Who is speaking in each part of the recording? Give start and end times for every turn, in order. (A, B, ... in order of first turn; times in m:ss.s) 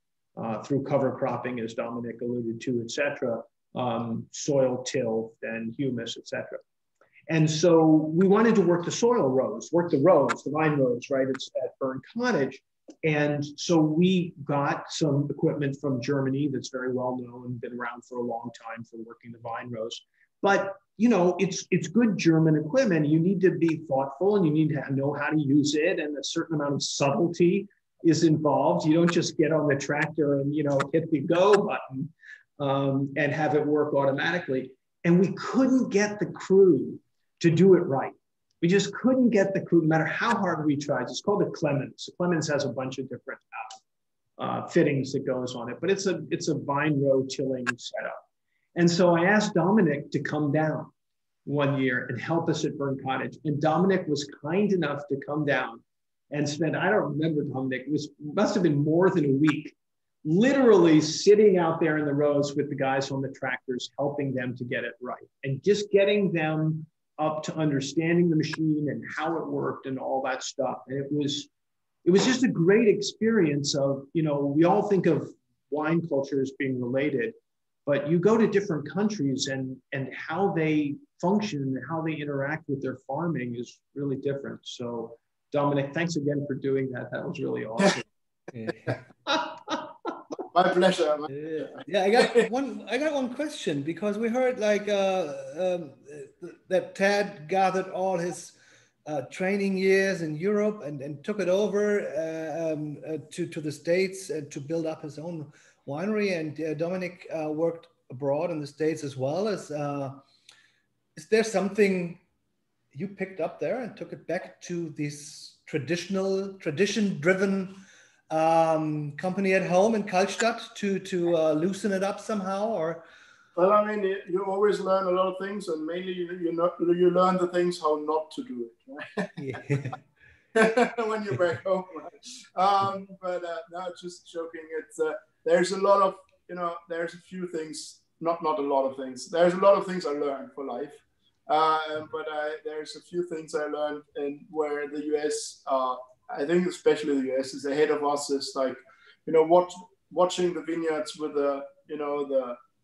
0:00.4-0:06.6 A
0:07.3-0:43.8 A
0:44.4-0:48.2 A
0:48.7-0:50.9 A
0:51.4-1:11.5 A
1:12.0-1:17.3 A
1:17.8-1:28.0 A
1:28.5-1:29.0 B
1:29.3-1:29.9 A
1:30.5-1:32.5 C
1:31.3-1:50.2 B
1:51.2-1:52.2 B
1:52.9-2:03.0 B
2:03.6-2:09.3 C
2:09.4-2:10.0 B
2:10.5-2:32.6 C